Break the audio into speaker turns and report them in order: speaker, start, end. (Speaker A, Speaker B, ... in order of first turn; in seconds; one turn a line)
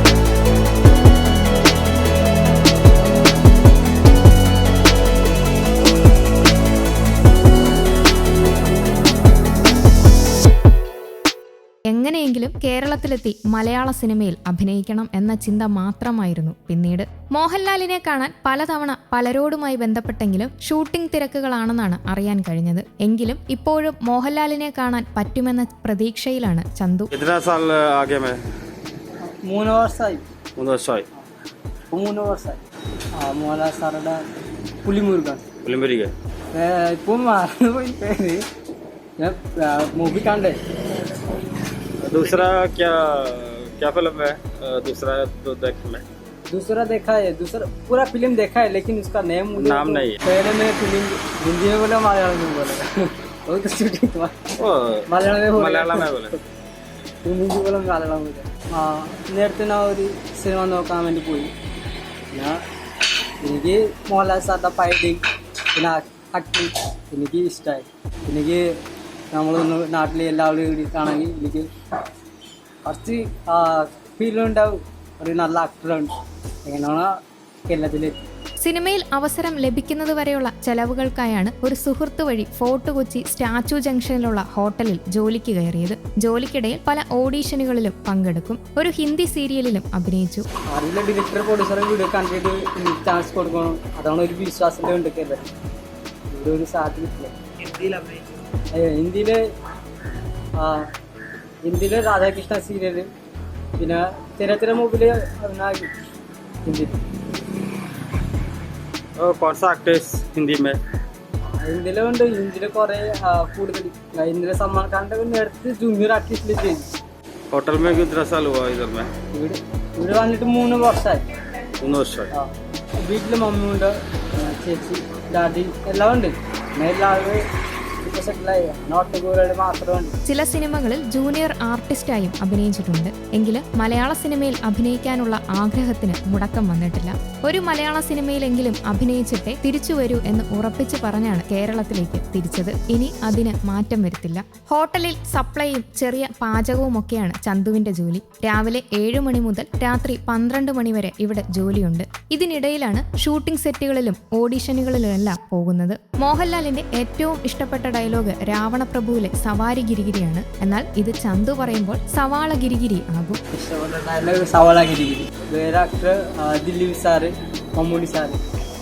Speaker A: 11.9-27.1
Speaker B: 27.1-28.4
Speaker C: 29.3-30.2
Speaker B: 30.6-31.1
Speaker C: 31.9-32.6
Speaker C: 33.1-34.2
Speaker C: 34.8-35.4
Speaker B: 35.6-36.1
Speaker C: 36.5-38.4
Speaker C: 39.2-40.6
Speaker B: 42.0-46.0
Speaker C: 46.5-54.5
Speaker B: 49.5-50.2
Speaker B: 54.6-56.3
Speaker C: 55.1-56.3
Speaker C: 57.2-61.5
Speaker C: 62.3-62.6
Speaker C: 63.4-65.2
Speaker C: 65.7-68.7
Speaker C: 69.3-71.7
Speaker C: 72.8-76.1
Speaker C: 76.7-77.1
Speaker C: 77.7-78.3
Speaker A: 78.6-90.5
Speaker C: 90.7-95.5
Speaker C: 96.3-99.4
Speaker C: 100.6-100.9
Speaker C: 101.6-103.1
Speaker C: 103.8-105.9
Speaker C: 106.6-107.0
Speaker B: 109.2-110.8
Speaker C: 111.6-116.9
Speaker B: 117.5-119.1
Speaker C: 119.3-121.2
Speaker B: 121.8-122.3
Speaker C: 123.0-127.4
Speaker C: 128.0-130.1
Speaker A: 130.2-163.4
Speaker C: 163.5-168.4